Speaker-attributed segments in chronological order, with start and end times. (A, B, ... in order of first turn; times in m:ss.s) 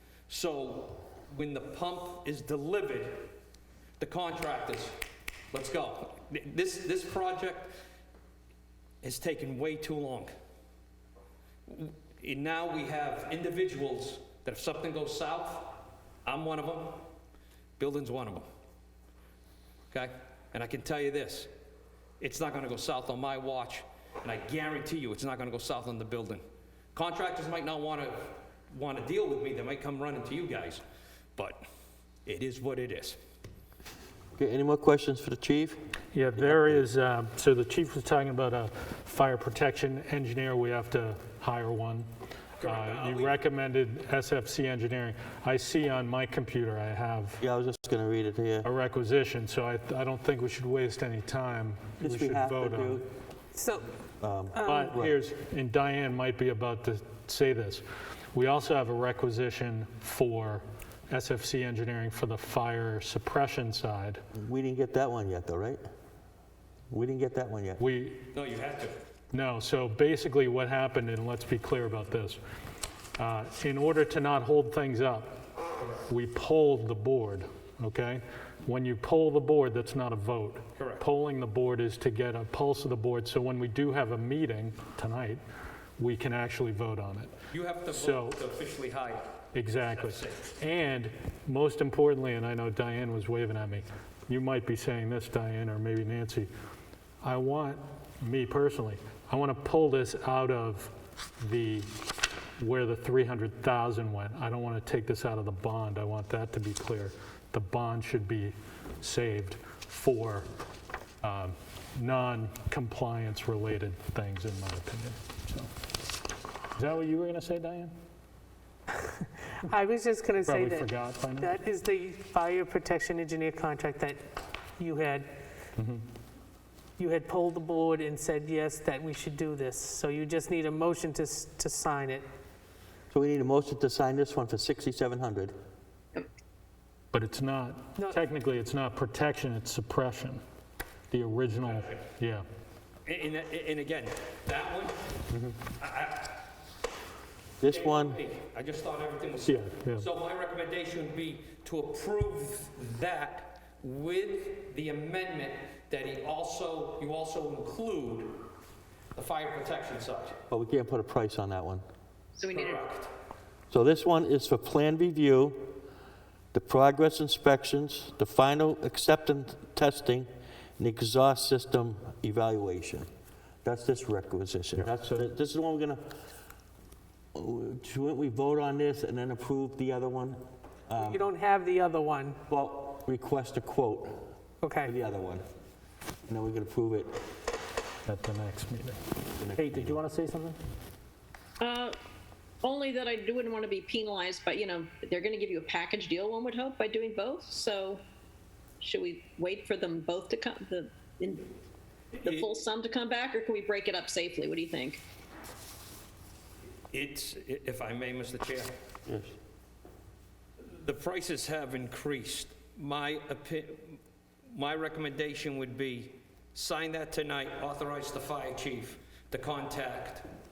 0:00.3-0:03.3 A
0:04.0-0:05.0 A
0:05.5-0:07.7 A
0:09.0-0:10.3 A
0:11.7-0:17.0 A
0:17.8-0:18.5 A
0:19.9-0:21.5 A
0:22.2-0:26.4 A
0:26.9-0:30.8 A
0:31.4-0:31.6 A
0:32.2-0:33.2 A
0:34.4-0:35.8 B
0:36.1-0:38.7 C
0:36.4-0:36.8 B
0:39.0-0:39.5 D
0:39.3-0:42.0 C
0:41.3-0:41.8 D
0:42.6-0:43.4 A
0:42.7-0:43.1 D
0:42.9-0:47.4 C
0:44.8-0:45.9 D
0:46.6-0:46.9 D
0:47.4-0:48.7 B
0:48.7-0:52.0 C
0:52.0-0:53.1 B
0:52.3-0:52.8 D
0:53.5-0:53.8 D
0:54.2-0:55.2 B
0:54.5-0:55.1 D
0:54.8-0:57.8 C
0:58.4-1:04.2 C
0:59.2-1:00.3 D
1:04.3-1:05.8 B
1:06.9-1:07.8 B
1:07.8-1:08.2 C
1:08.3-1:09.0 A
1:09.3-1:12.4 C
1:13.2-1:15.3 C
1:16.1-1:25.4 C
1:20.8-1:21.0 A
1:21.8-1:22.5 D
1:26.0-1:27.1 D
1:26.2-1:27.2 C
1:27.5-1:30.5 A
1:29.6-1:29.9 C
1:30.6-1:36.5 C
1:37.2-1:40.9 C
1:41.5-1:41.8 C
1:42.6-1:50.4 C
1:51.2-1:55.7 C
1:56.7-1:57.9 C
1:59.6-2:04.2 D
2:00.5-2:01.6 C
2:04.8-2:05.3 D
2:05.8-2:06.0 C
2:07.0-2:12.3 D
2:13.1-2:15.5 B
2:17.1-2:20.4 C
2:18.0-2:18.4 D
2:21.1-2:22.4 C
2:21.6-2:22.1 A
2:23.0-2:24.9 A
2:25.8-2:26.4 A
2:27.6-2:28.2 B
2:27.6-2:38.4 A
2:29.5-2:30.0 C
2:39.1-2:40.4 A
2:40.5-2:41.8 B
2:42.4-2:42.8 E
2:42.5-2:43.1 A
2:43.7-2:45.7 B
2:46.5-2:50.3 B
2:50.8-2:53.1 B
2:53.6-2:56.0 B
2:57.3-3:01.3 B
3:01.0-3:02.4 D
3:02.5-3:04.3 B
3:04.6-3:04.9 D
3:04.8-3:05.4 B
3:06.3-3:07.1 B
3:08.0-3:09.0 C
3:09.4-3:10.0 B
3:09.6-3:10.5 C
3:11.6-3:11.9 E
3:12.6-3:18.0 E
3:18.8-3:21.5 E
3:22.1-3:22.5 A
3:22.2-3:25.0 E
3:26.9-3:28.7 A
3:29.1-3:29.3 B
3:30.7-3:40.2 A